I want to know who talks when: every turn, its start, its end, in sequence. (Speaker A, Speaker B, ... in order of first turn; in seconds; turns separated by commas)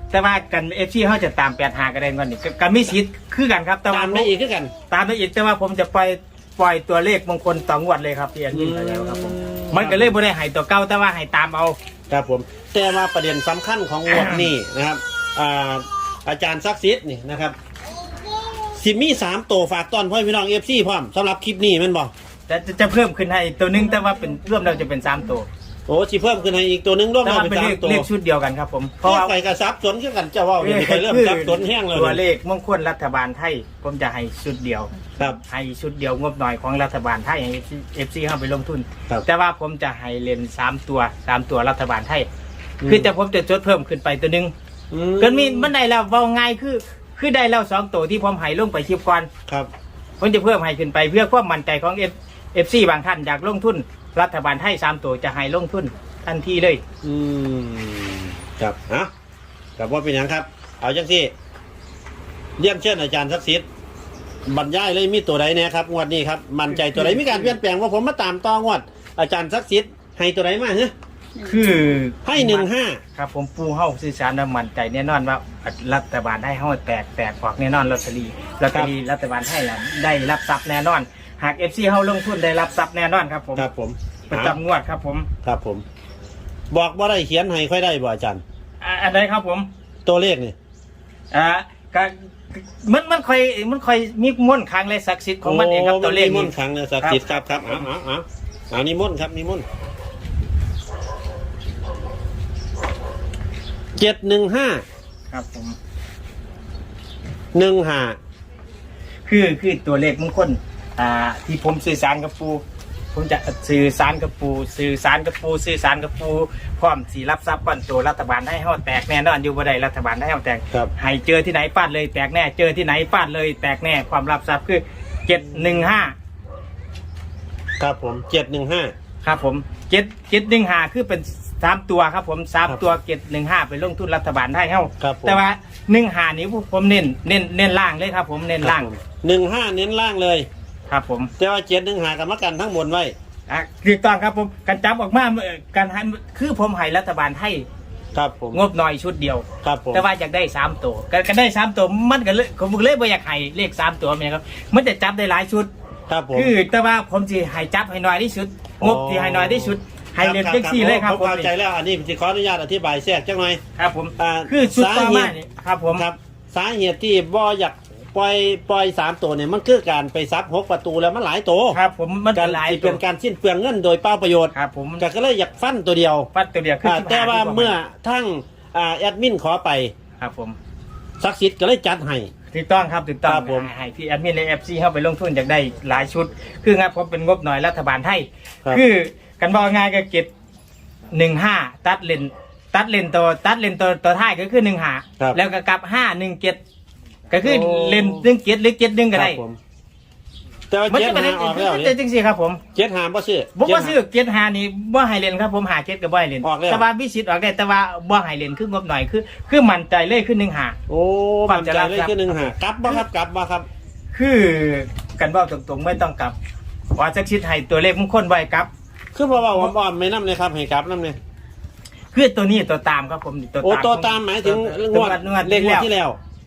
Speaker A: 0.1-4.3, Speaker B: 3.9-4.7, Speaker A: 4.9-11.8, Speaker B: 8.5-10.1, Speaker B: 12.1-17.6, Speaker A: 14.1-14.5, Speaker B: 18.8-22.1, Speaker A: 22.5-25.5, Speaker B: 25.9-28.1, Speaker A: 27.2-29.3, Speaker B: 29.0-32.2, Speaker A: 30.6-42.3, Speaker B: 42.8-43.1, Speaker A: 42.8-44.5, Speaker B: 44.9-45.7, Speaker A: 45.2-49.3, Speaker A: 50.2-56.8, Speaker B: 57.0-59.1, Speaker B: 59.8-61.3, Speaker B: 62.6-63.6, Speaker B: 64.5-70.9, Speaker A: 66.8-67.5, Speaker A: 71.4-83.7, Speaker B: 72.2-73.0, Speaker B: 83.6-84.6, Speaker A: 84.3-85.3, Speaker B: 85.4-85.8, Speaker B: 86.7-88.4, Speaker A: 88.8-89.7, Speaker B: 90.1-90.5, Speaker A: 91.3-97.9, Speaker B: 95.4-99.6, Speaker B: 104.0-104.8, Speaker A: 105.3-105.8, Speaker B: 107.5-108.2, Speaker A: 109.2-112.6, Speaker A: 113.1-126.1, Speaker B: 127.8-128.9, Speaker A: 129.2-138.9, Speaker B: 135.0-135.4, Speaker B: 138.6-140.5, Speaker A: 140.9-141.3, Speaker B: 141.4-143.1, Speaker A: 143.5-147.7, Speaker B: 148.1-148.6, Speaker A: 148.5-155.7, Speaker B: 149.6-150.0, Speaker B: 156.1-156.5, Speaker A: 156.3-161.5, Speaker B: 158.8-163.6, Speaker A: 163.8-166.1, Speaker B: 164.2-165.3, Speaker B: 165.9-171.8, Speaker A: 171.7-173.0, Speaker B: 172.3-176.3, Speaker A: 174.5-175.0, Speaker A: 176.3-177.8, Speaker B: 176.8-179.9, Speaker A: 180.2-180.6, Speaker B: 181.2-182.3, Speaker A: 182.5-190.3, Speaker B: 183.2-183.7, Speaker A: 191.1-196.6, Speaker A: 197.3-199.4, Speaker B: 197.4-198.3, Speaker B: 199.1-199.6, Speaker B: 200.7-201.9, Speaker A: 200.9-202.6, Speaker B: 202.8-203.9, Speaker A: 203.6-210.8, Speaker B: 206.4-206.8, Speaker B: 210.9-213.7, Speaker A: 211.5-213.0, Speaker A: 214.1-216.4, Speaker A: 216.9-218.7, Speaker B: 219.1-221.2, Speaker A: 222.1-225.9, Speaker B: 223.6-226.2